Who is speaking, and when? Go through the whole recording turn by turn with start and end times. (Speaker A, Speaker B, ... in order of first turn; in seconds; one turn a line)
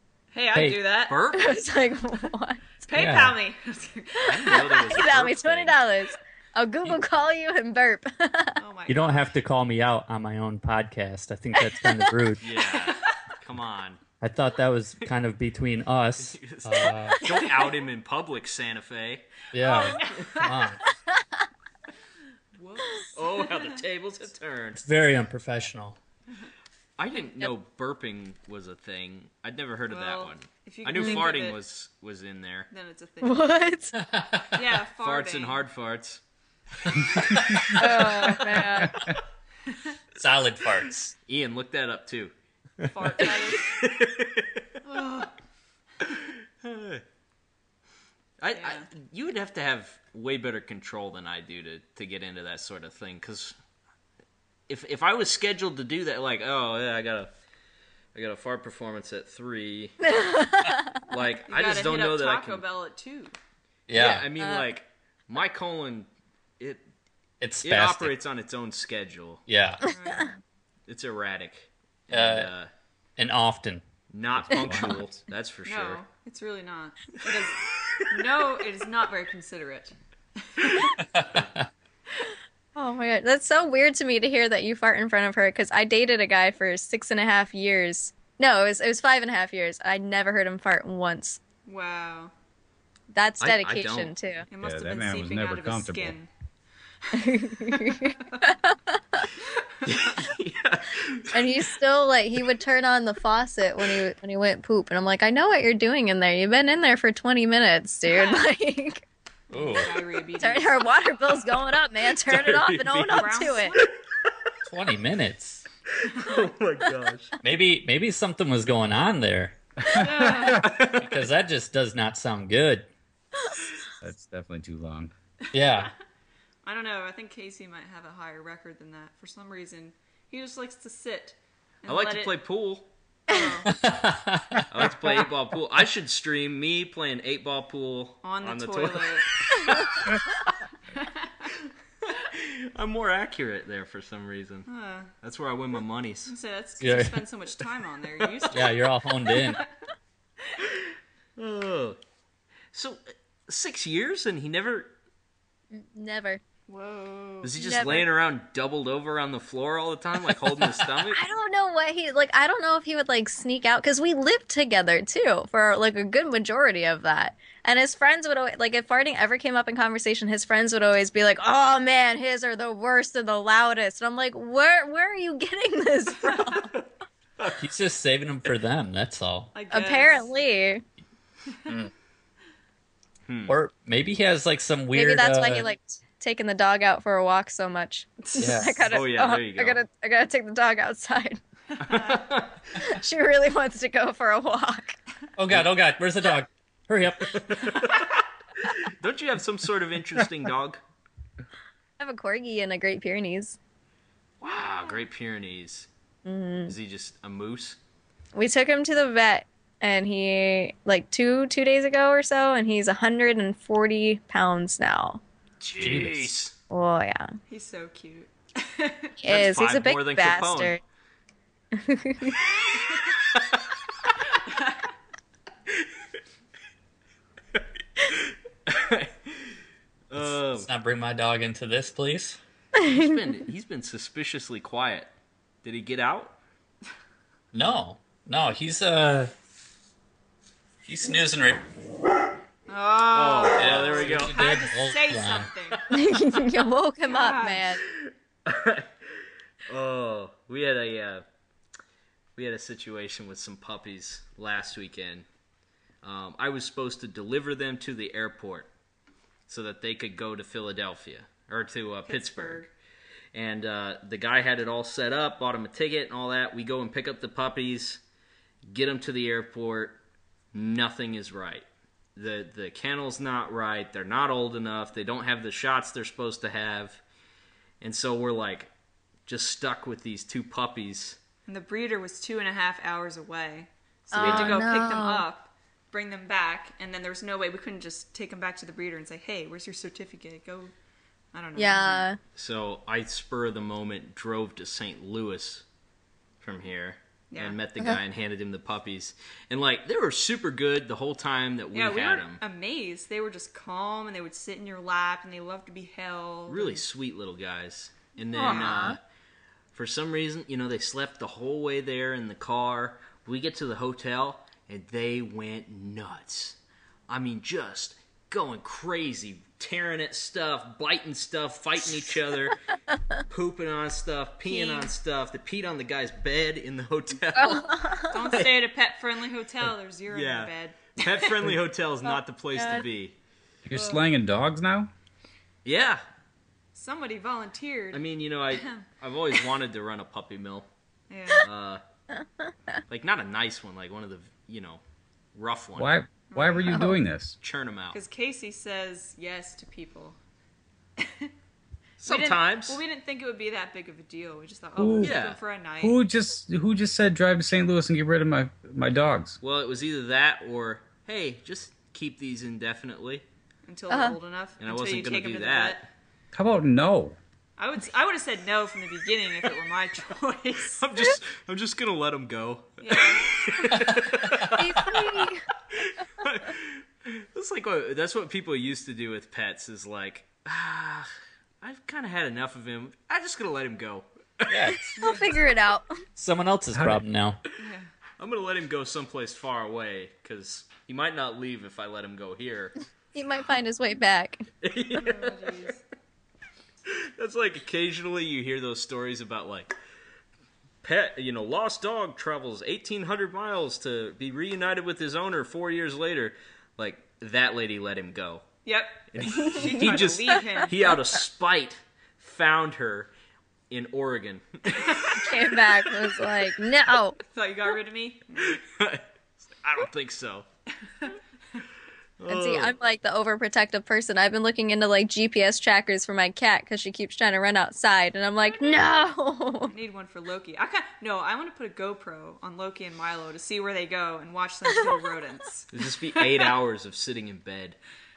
Speaker A: 0.3-1.2
Speaker B: 0.5-0.8
Speaker C: 1.1-1.6
Speaker D: 1.3-2.8
Speaker A: 2.9-5.0
Speaker B: 3.0-3.4
Speaker C: 4.2-5.8
Speaker D: 4.4-8.6
Speaker A: 8.6-9.3
Speaker B: 8.9-12.5
Speaker D: 11.8-12.1
Speaker C: 12.4-14.0
Speaker A: 12.6-13.2
Speaker B: 14.2-17.3
Speaker C: 16.2-20.3
Speaker A: 17.3-17.8
Speaker B: 19.5-20.8
Speaker A: 19.6-20.6
Speaker A: 22.6-23.8
Speaker C: 23.2-24.8
Speaker B: 24.8-26.0
Speaker C: 27.0-32.7
Speaker A: 29.9-31.6
Speaker D: 31.0-31.3
Speaker A: 32.7-33.5
Speaker D: 33.2-34.0
Speaker B: 33.9-34.6
Speaker A: 34.5-35.6
Speaker C: 35.0-36.2
Speaker B: 37.4-37.8
Speaker D: 37.7-39.0
Speaker C: 38.0-38.4
Speaker A: 39.7-40.0
Speaker B: 40.2-41.1
Speaker C: 41.2-42.3
Speaker A: 42.9-43.8
Speaker C: 43.2-44.7
Speaker A: 44.9-45.3
Speaker C: 46.1-47.0
Speaker C: 48.4-53.6
Speaker A: 48.6-48.9
Speaker C: 54.7-57.3
Speaker C: 58.1-60.2
Speaker D: 60.0-61.0
Speaker C: 61.0-62.6
Speaker A: 61.5-63.4
Speaker B: 63.9-64.3
Speaker C: 63.9-66.8
Speaker D: 64.0-64.7
Speaker B: 67.4-68.1
Speaker C: 67.6-69.5
Speaker B: 69.5-69.9
Speaker A: 69.9-70.4
Speaker C: 70.9-72.7
Speaker B: 72.1-72.5
Speaker B: 73.2-73.9
Speaker C: 74.1-76.0
Speaker E: 74.4-75.2
Speaker A: 75.7-81.0
Speaker B: 81.0-81.7
Speaker D: 82.8-91.4
Speaker A: 91.7-92.3
Speaker D: 93.1-94.5
Speaker C: 93.4-94.1
Speaker A: 94.5-96.3
Speaker E: 94.6-96.2
Speaker A: 97.1-98.5
Speaker D: 97.1-99.3
Speaker C: 99.8-101.6
Speaker D: 101.3-109.0
Speaker A: 108.1-108.4
Speaker B: 109.5-109.9
Speaker A: 109.5-111.3
Speaker D: 110.4-113.8
Speaker C: 112.2-114.3
Speaker A: 113.1-113.9
Speaker B: 114.7-115.6
Speaker C: 116.0-117.4
Speaker B: 117.4-120.0
Speaker A: 119.9-120.7
Speaker C: 120.5-121.1
Speaker B: 121.0-122.9
Speaker E: 124.0-125.1
Speaker B: 125.5-125.9
Speaker A: 126.7-132.3
Speaker C: 131.9-132.9
Speaker A: 133.3-133.7
Speaker B: 133.7-134.7
Speaker C: 134.7-140.4
Speaker A: 138.2-139.3
Speaker A: 141.0-141.3
Speaker C: 142.0-144.7
Speaker A: 144.7-145.1
Speaker C: 145.2-146.3
Speaker A: 146.3-149.7
Speaker B: 146.8-147.2
Speaker B: 148.5-149.6
Speaker C: 151.4-152.0
Speaker C: 152.7-154.9
Speaker D: 155.7-156.4
Speaker A: 156.7-158.0
Speaker C: 157.4-161.2
Speaker D: 157.6-158.1
Speaker D: 161.1-176.8
Speaker C: 177.4-177.7
Speaker B: 177.6-179.5
Speaker A: 179.5-180.3
Speaker D: 179.7-180.8
Speaker C: 183.3-183.6
Speaker B: 183.5-185.7
Speaker D: 184.9-191.4
Speaker B: 188.4-188.9
Speaker C: 188.9-189.8
Speaker A: 191.8-192.2
Speaker C: 191.8-192.6
Speaker D: 192.7-195.0
Speaker B: 195.4-197.8
Speaker C: 197.4-200.8
Speaker D: 202.0-203.6
Speaker C: 204.4-205.9
Speaker D: 206.2-206.7
Speaker C: 206.7-207.8
Speaker D: 208.4-215.2
Speaker C: 215.6-216.6
Speaker B: 215.8-216.3
Speaker D: 216.7-217.3
Speaker A: 217.5-219.2
Speaker D: 219.2-220.8
Speaker C: 219.3-220.8
Speaker D: 221.7-222.4
Speaker A: 224.4-224.8
Speaker C: 227.6-229.6
Speaker C: 230.1-230.7
Speaker B: 230.2-232.4
Speaker D: 232.8-233.1
Speaker C: 232.8-235.1
Speaker C: 235.6-236.4
Speaker B: 237.5-239.3
Speaker B: 240.9-241.6
Speaker A: 242.7-246.0
Speaker C: 243.1-244.4
Speaker B: 243.6-245.5
Speaker D: 245.9-247.8
Speaker A: 247.1-247.7
Speaker C: 247.8-248.9
Speaker C: 249.7-251.2
Speaker C: 252.4-255.3
Speaker C: 256.0-258.7
Speaker C: 259.5-262.7
Speaker A: 262.1-262.7
Speaker C: 263.3-268.0
Speaker C: 268.7-270.0
Speaker C: 270.5-277.0
Speaker C: 277.8-278.7
Speaker C: 279.3-281.2
Speaker A: 281.5-290.7
Speaker D: 284.1-285.2
Speaker C: 284.2-284.7
Speaker A: 291.3-292.1
Speaker D: 291.6-292.2
Speaker C: 292.4-295.6
Speaker C: 296.4-302.4
Speaker A: 297.3-297.6
Speaker A: 301.7-306.8
Speaker C: 306.5-309.0
Speaker A: 308.3-308.9
Speaker D: 308.3-309.0
Speaker C: 309.7-322.6
Speaker C: 323.3-328.5
Speaker A: 324.5-324.9
Speaker D: 324.5-324.8
Speaker D: 327.4-328.2
Speaker A: 328.1-331.5
Speaker C: 330.1-333.2
Speaker D: 332.6-332.8
Speaker E: 333.7-334.9
Speaker A: 333.7-334.0
Speaker C: 335.6-336.0
Speaker A: 336.7-339.4
Speaker C: 337.9-340.7
Speaker A: 341.1-341.5
Speaker C: 341.4-341.8
Speaker C: 342.9-344.8
Speaker C: 345.4-345.9
Speaker E: 345.8-347.4
Speaker A: 346.3-346.8
Speaker C: 347.4-348.0
Speaker A: 347.9-350.2
Speaker A: 351.0-351.3
Speaker C: 352.0-352.8
Speaker A: 352.1-356.0
Speaker E: 354.8-355.2
Speaker C: 355.0-355.4
Speaker E: 355.8-359.4
Speaker C: 359.4-363.2
Speaker A: 363.7-365.9
Speaker D: 363.9-364.2
Speaker C: 364.6-365.9
Speaker E: 366.3-367.2
Speaker A: 367.6-370.9
Speaker C: 370.8-384.8
Speaker A: 372.8-373.7
Speaker D: 374.6-375.4
Speaker B: 384.5-385.0
Speaker D: 384.9-386.0
Speaker A: 385.0-385.3
Speaker B: 386.2-387.4
Speaker E: 386.7-387.0
Speaker A: 387.6-387.9
Speaker C: 388.2-392.8
Speaker D: 393.1-394.5
Speaker C: 394.6-395.7
Speaker A: 394.9-395.8
Speaker C: 396.9-399.7
Speaker C: 400.8-408.5
Speaker A: 408.6-410.9
Speaker C: 409.1-413.1
Speaker D: 409.3-409.9
Speaker C: 413.7-415.4
Speaker A: 414.7-415.2
Speaker D: 415.1-417.2
Speaker A: 417.2-418.6
Speaker C: 418.4-420.5
Speaker C: 422.2-422.8
Speaker D: 422.3-429.7
Speaker A: 429.7-436.6
Speaker C: 435.7-437.8